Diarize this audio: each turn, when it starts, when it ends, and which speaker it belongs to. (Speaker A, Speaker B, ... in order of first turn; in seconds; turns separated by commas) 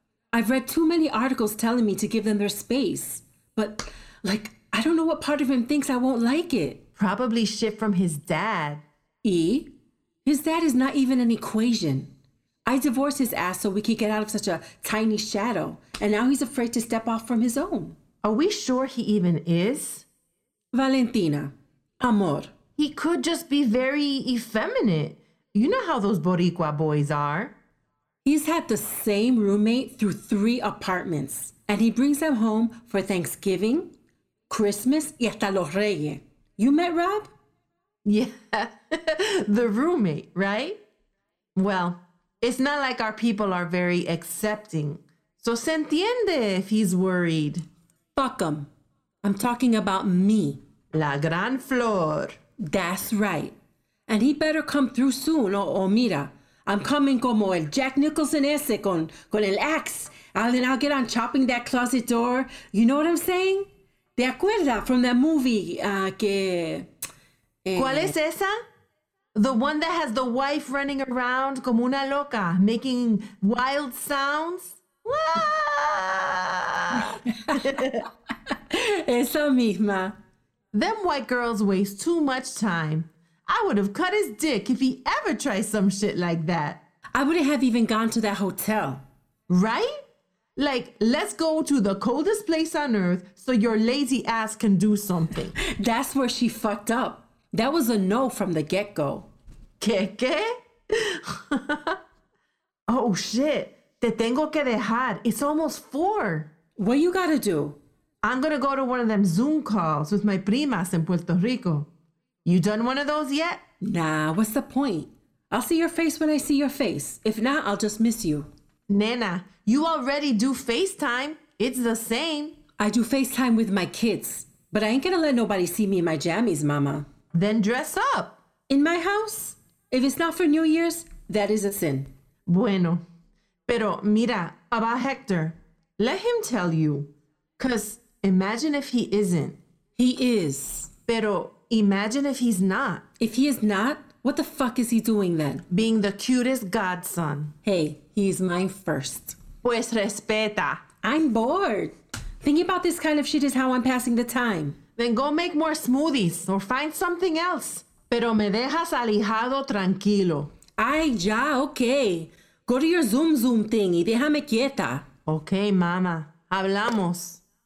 Speaker A: 0.3-6.8, Speaker B: 7.0-8.8, Speaker A: 9.2-9.7, Speaker A: 10.2-12.1, Speaker A: 12.7-17.9, Speaker B: 18.2-20.1, Speaker A: 20.7-22.5, Speaker B: 22.8-27.5, Speaker A: 28.2-33.9, Speaker A: 34.5-37.3, Speaker B: 38.0-40.8, Speaker B: 41.5-47.6, Speaker A: 48.1-48.7, Speaker A: 49.2-50.6, Speaker B: 50.9-52.4, Speaker A: 52.6-53.5, Speaker A: 54.1-66.9, Speaker A: 67.6-68.1, Speaker B: 67.7-68.6, Speaker B: 69.3-78.0, Speaker A: 77.5-77.8, Speaker A: 78.5-80.2, Speaker B: 80.7-86.8, Speaker A: 87.1-89.0, Speaker B: 89.5-90.0, Speaker B: 90.5-95.5, Speaker A: 95.6-99.3, Speaker B: 99.8-102.0, Speaker B: 102.9-106.5, Speaker A: 106.8-107.8, Speaker B: 108.2-111.9, Speaker B: 112.4-113.6, Speaker A: 113.8-118.5, Speaker B: 118.9-122.5, Speaker A: 122.8-127.0, Speaker B: 127.3-128.4, Speaker A: 128.7-132.1, Speaker B: 132.5-133.0, Speaker B: 133.7-139.6, Speaker A: 140.0-140.9, Speaker B: 141.1-143.0, Speaker A: 143.2-145.6, Speaker B: 145.7-147.5, Speaker A: 147.6-149.4, Speaker B: 149.6-150.8, Speaker A: 151.0-154.8, Speaker B: 155.0-160.5, Speaker A: 160.8-165.0, Speaker B: 165.2-167.4